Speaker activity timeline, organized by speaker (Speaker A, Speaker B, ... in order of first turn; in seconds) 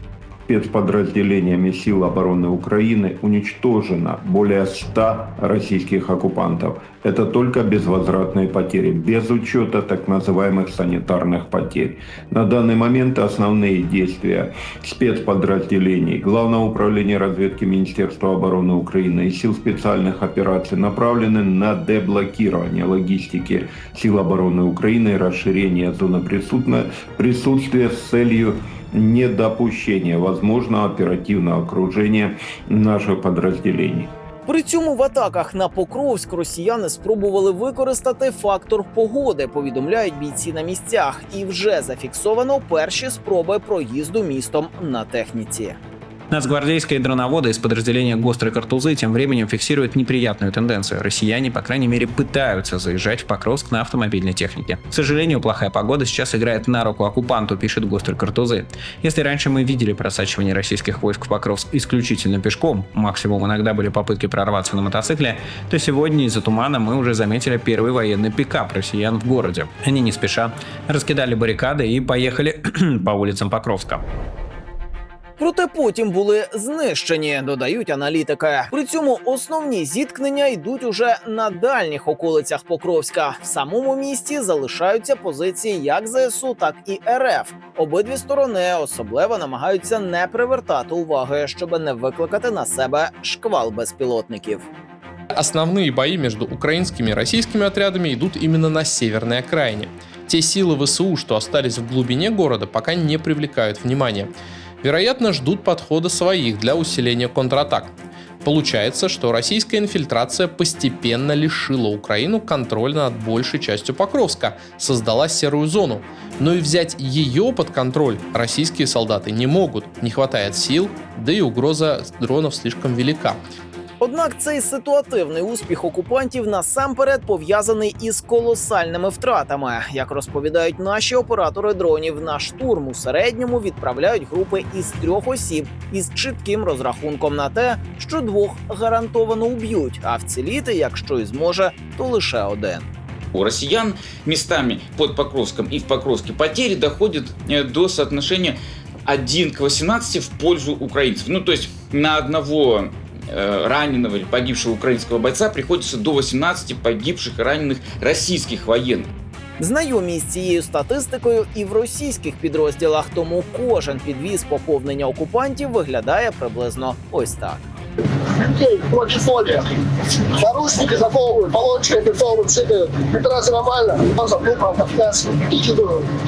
Speaker A: 0.5-34.1
Speaker B: 34.5-45.8, 75.4-94.7, 124.0-142.9, 159.6-167.6
Speaker C: 46.3-74.0
Speaker D: 95.3-104.3, 104.8-123.4
Speaker E: 143.3-159.1
Speaker F: 168.5-169.6, 170.4-175.9